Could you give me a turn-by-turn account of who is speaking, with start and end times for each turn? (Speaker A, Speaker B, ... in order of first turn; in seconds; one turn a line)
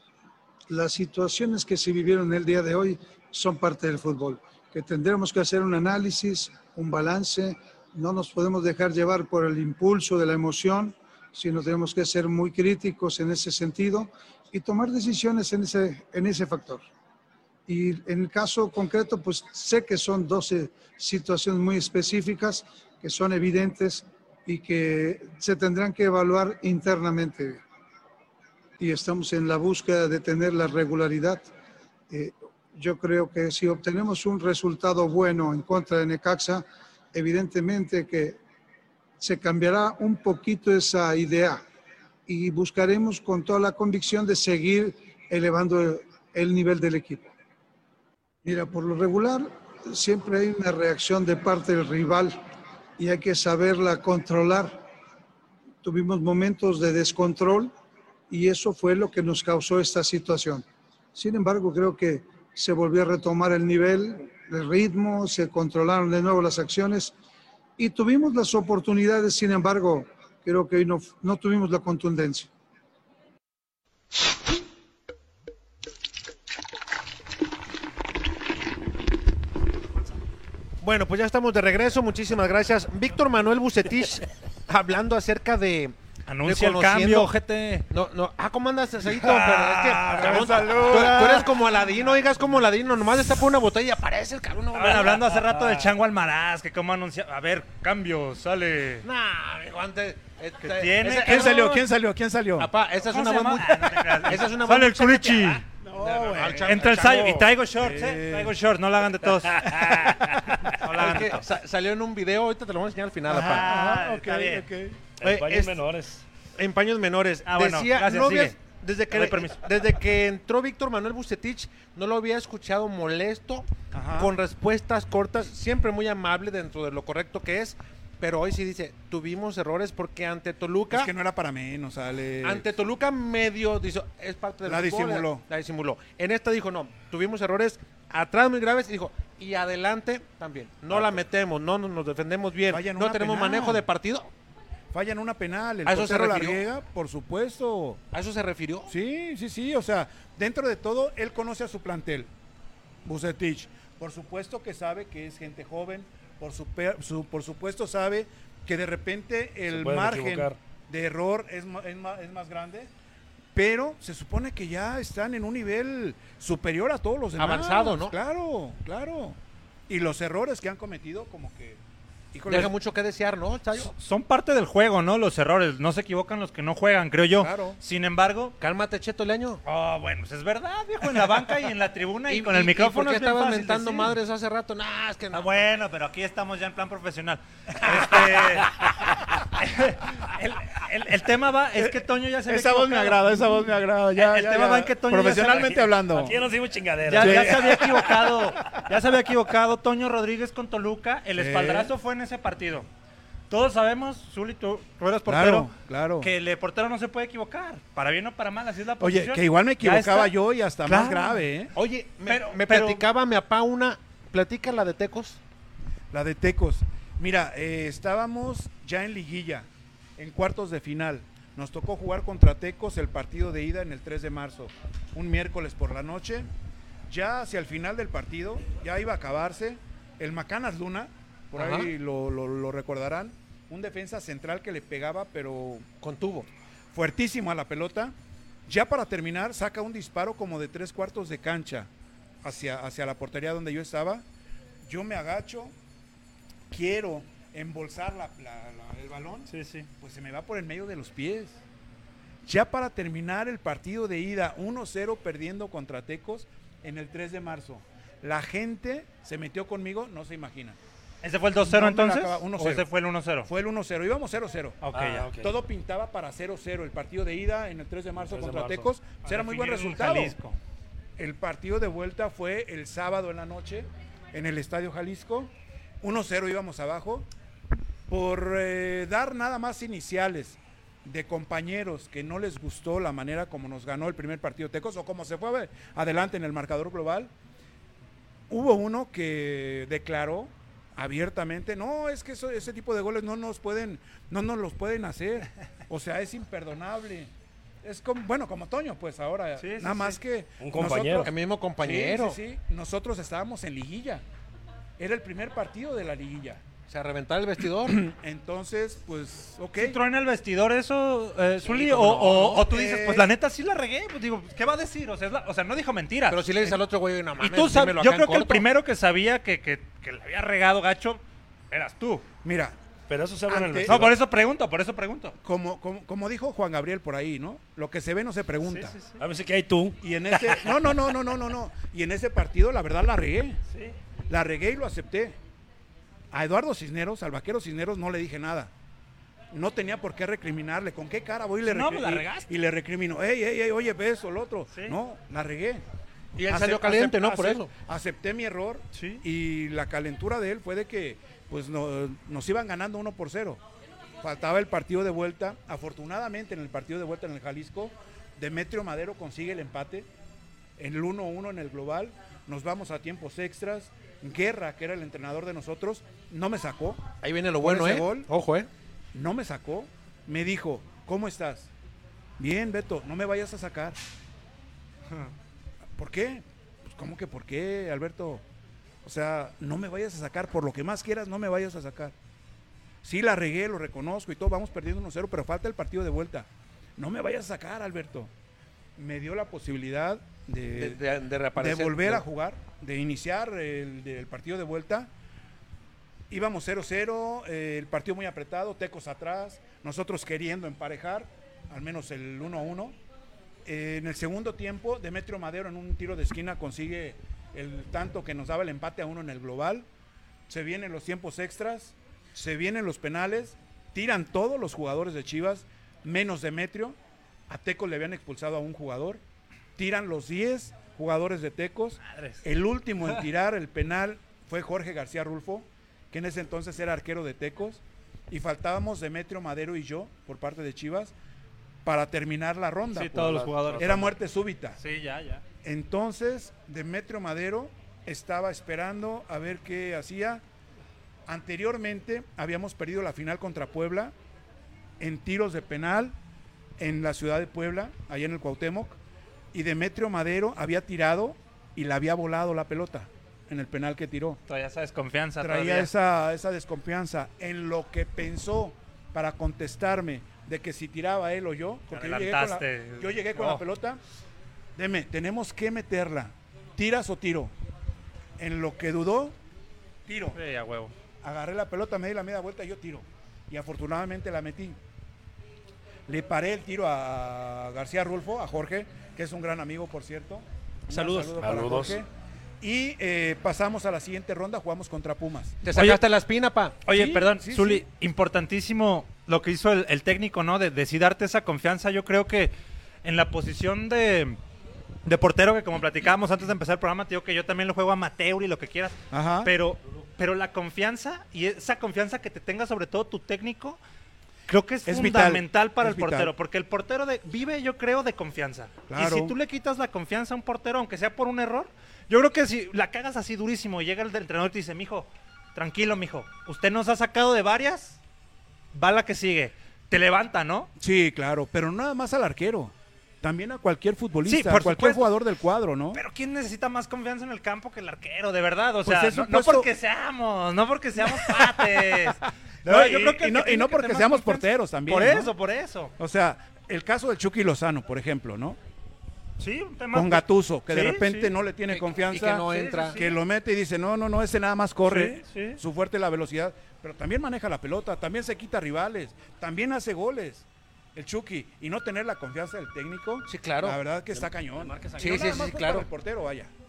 Speaker A: 0.7-16.9
Speaker A: 17.7-27.6
Speaker A: 28.8-31.4
Speaker A: 32.1-38.4
Speaker A: 39.2-41.6
Speaker A: 42.3-47.2
Speaker A: 48.4-52.4
Speaker A: 53.0-54.8
Speaker A: 55.8-57.7
Speaker A: 58.3-60.6
Speaker A: 61.1-67.1
Speaker A: 67.8-72.5
Speaker B: 80.8-87.3
Speaker C: 86.3-87.8
Speaker B: 87.9-95.9
Speaker C: 89.2-91.4
Speaker D: 90.0-91.5
Speaker C: 94.7-99.0
Speaker B: 99.0-101.8
Speaker C: 100.6-101.8
Speaker D: 101.2-102.7
Speaker B: 102.6-107.5
Speaker C: 103.0-105.7
Speaker D: 105.8-108.6
Speaker C: 106.4-111.5
Speaker E: 109.6-110.1
Speaker D: 109.6-110.2
Speaker B: 110.8-113.7
Speaker D: 113.3-115.0
Speaker C: 113.3-114.7
Speaker B: 115.2-115.8
Speaker E: 115.2-116.2
Speaker B: 116.6-131.1
Speaker C: 117.5-118.6
Speaker C: 119.1-119.7
Speaker D: 123.9-124.3
Speaker D: 130.9-132.7
Speaker B: 132.4-144.3
Speaker D: 134.6-135.4
Speaker D: 140.9-141.2
Speaker D: 142.7-143.8
Speaker D: 144.9-148.0
Speaker B: 145.8-146.6
Speaker B: 148.1-148.9
Speaker D: 148.9-152.3
Speaker D: 153.0-162.9
Speaker E: 159.7-160.6
Speaker D: 163.5-169.4
Speaker B: 167.4-168.1
Speaker D: 169.9-171.8
Speaker D: 172.3-172.7
Speaker B: 172.5-173.9
Speaker C: 174.0-178.5
Speaker B: 177.4-177.8
Speaker B: 178.6-179.6
Speaker C: 179.6-184.2
Speaker B: 182.3-185.5
Speaker C: 185.3-193.3
Speaker D: 191.7-196.4
Speaker C: 194.2-195.8
Speaker E: 195.6-198.8
Speaker C: 197.1-202.9
Speaker D: 197.2-198.8
Speaker D: 201.3-201.9
Speaker C: 203.5-211.4
Speaker D: 205.3-206.3
Speaker D: 209.0-211.7
Speaker B: 211.7-215.4
Speaker C: 212.2-213.0
Speaker D: 216.1-226.5
Speaker D: 227.1-235.8
Speaker B: 231.6-231.9
Speaker B: 236.0-236.5
Speaker D: 236.9-238.1
Speaker D: 238.7-241.9
Speaker D: 242.4-244.2
Speaker D: 244.8-245.7
Speaker D: 246.7-251.6
Speaker C: 249.5-249.9
Speaker D: 252.4-260.8
Speaker C: 261.2-263.5
Speaker D: 261.6-262.9
Speaker D: 263.4-264.8
Speaker C: 264.8-265.3
Speaker E: 264.9-265.5
Speaker D: 265.4-270.4
Speaker E: 268.2-268.9
Speaker C: 269.2-270.6
Speaker D: 271.2-277.3
Speaker D: 278.1-287.3
Speaker D: 288.5-297.3
Speaker D: 297.8-304.2
Speaker C: 299.6-300.2
Speaker E: 300.6-301.3
Speaker B: 301.2-302.4
Speaker D: 305.0-306.6
Speaker B: 306.9-308.0
Speaker D: 307.8-310.0
Speaker C: 309.8-316.8
Speaker B: 311.6-312.6
Speaker D: 312.5-313.3
Speaker B: 316.3-318.7
Speaker C: 317.4-322.3
Speaker D: 322.4-322.8
Speaker E: 323.1-324.2
Speaker D: 323.5-324.1
Speaker C: 323.9-325.4
Speaker D: 325.4-329.0
Speaker C: 328.6-329.2
Speaker E: 329.2-330.0
Speaker D: 330.0-333.6
Speaker C: 333.7-333.9
Speaker D: 334.3-335.4
Speaker D: 336.3-338.7
Speaker D: 339.5-345.8
Speaker C: 341.6-342.5
Speaker C: 344.7-345.0
Speaker B: 346.4-347.7
Speaker D: 346.4-353.6
Speaker C: 348.9-349.2
Speaker D: 354.2-360.1
Speaker D: 360.8-367.0
Speaker B: 367.2-368.7
Speaker D: 367.6-368.3
Speaker D: 369.1-371.7
Speaker D: 372.4-374.0
Speaker D: 376.0-378.4
Speaker D: 379.0-382.1
Speaker D: 383.0-388.3
Speaker D: 388.9-391.0
Speaker B: 390.7-392.2
Speaker D: 391.6-395.1
Speaker D: 396.3-402.9
Speaker D: 403.6-409.9
Speaker D: 410.5-417.0
Speaker D: 417.5-419.2
Speaker D: 419.8-431.1
Speaker C: 422.1-422.4
Speaker D: 431.8-434.8
Speaker C: 432.9-434.2
Speaker E: 433.3-434.0
Speaker C: 434.8-435.4
Speaker D: 435.6-440.4
Speaker D: 441.3-444.1
Speaker D: 445.0-446.1
Speaker D: 446.8-449.0
Speaker D: 449.5-454.4
Speaker C: 454.5-455.9
Speaker D: 455.4-464.0
Speaker C: 461.9-463.6
Speaker D: 464.8-467.5
Speaker D: 468.4-469.4
Speaker D: 470.1-470.4
Speaker C: 470.3-470.9
Speaker D: 471.2-474.8
Speaker D: 476.1-482.1
Speaker C: 480.9-481.3
Speaker E: 481.4-481.9
Speaker D: 482.6-485.6
Speaker B: 485.6-486.8
Speaker C: 485.7-486.0
Speaker C: 486.9-494.4
Speaker D: 486.9-487.9
Speaker C: 495.0-503.8
Speaker D: 499.1-499.5
Speaker C: 504.5-518.0
Speaker D: 504.9-506.3
Speaker D: 508.9-509.4
Speaker C: 518.7-520.7
Speaker D: 520.8-526.0
Speaker C: 524.2-525.1
Speaker C: 525.9-535.9
Speaker D: 528.8-529.7
Speaker D: 531.0-535.3
Speaker D: 536.0-538.6
Speaker C: 539.4-543.1
Speaker D: 539.9-556.5
Speaker B: 541.7-543.0
Speaker C: 544.8-545.6
Speaker B: 553.3-553.8
Speaker E: 554.2-555.3
Speaker B: 555.0-555.9